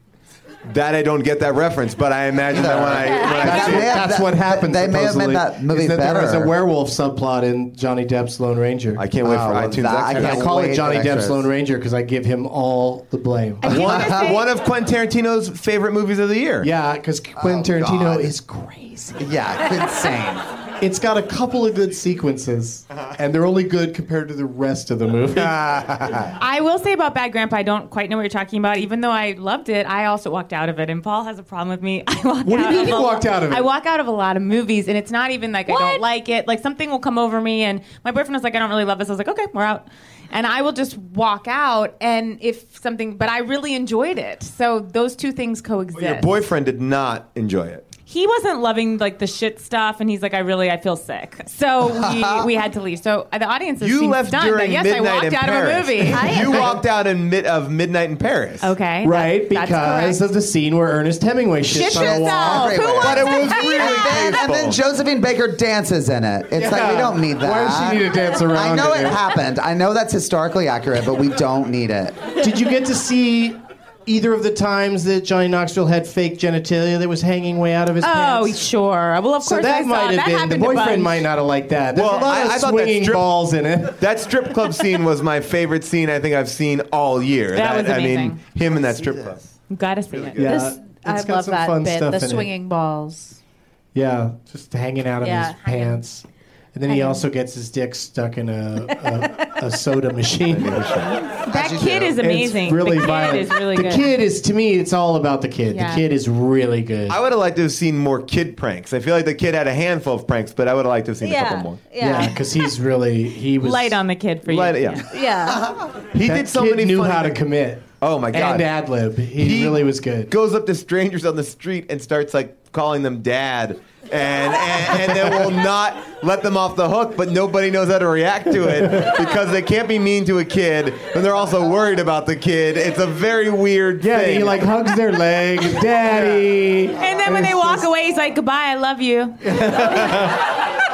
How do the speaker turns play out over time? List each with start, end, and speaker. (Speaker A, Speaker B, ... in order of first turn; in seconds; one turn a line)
Speaker A: 0.7-3.9
Speaker B: 2.5-6.5
Speaker C: 3.2-3.5
Speaker D: 3.4-9.0
Speaker A: 9.0-10.5
Speaker B: 9.2-11.5
Speaker D: 10.1-13.7
Speaker A: 13.7-16.7
Speaker E: 13.7-14.4
Speaker B: 13.7-14.4
Speaker D: 16.6-19.2
Speaker B: 17.4-18.3
Speaker B: 19.2-20.4
Speaker D: 20.8-25.6
Speaker A: 25.5-26.3
Speaker E: 26.4-46.4
Speaker D: 32.4-33.7
Speaker C: 35.7-36.0
Speaker A: 45.9-47.8
Speaker E: 48.1-56.5
Speaker B: 51.8-52.5
Speaker A: 53.8-58.7
Speaker C: 56.1-56.8
Speaker E: 58.6-60.2
Speaker D: 59.0-62.8
Speaker C: 61.7-64.4
Speaker B: 61.7-72.2
Speaker A: 63.0-64.8
Speaker D: 66.5-69.2
Speaker D: 72.4-78.6
Speaker E: 78.0-81.2
Speaker D: 79.4-84.0
Speaker A: 81.9-83.4
Speaker A: 83.9-89.5
Speaker E: 87.5-88.4
Speaker E: 89.7-90.5
Speaker A: 90.1-90.5
Speaker D: 90.4-92.5
Speaker C: 90.5-93.4
Speaker D: 93.9-101.1
Speaker C: 95.2-95.6
Speaker E: 96.9-97.2
Speaker A: 100.5-101.2
Speaker E: 101.4-104.1
Speaker B: 101.5-102.1
Speaker D: 102.2-107.2
Speaker E: 105.7-106.0
Speaker A: 107.1-111.8
Speaker C: 111.2-112.4
Speaker D: 112.0-114.0
Speaker E: 113.6-115.0
Speaker A: 114.4-115.1
Speaker C: 115.1-115.7
Speaker B: 115.5-115.9
Speaker A: 116.1-117.4
Speaker D: 116.2-120.3
Speaker A: 118.0-118.7
Speaker A: 119.3-134.7
Speaker D: 128.8-129.1
Speaker D: 134.0-137.9
Speaker A: 136.1-136.4
Speaker E: 137.0-140.0
Speaker D: 139.4-140.4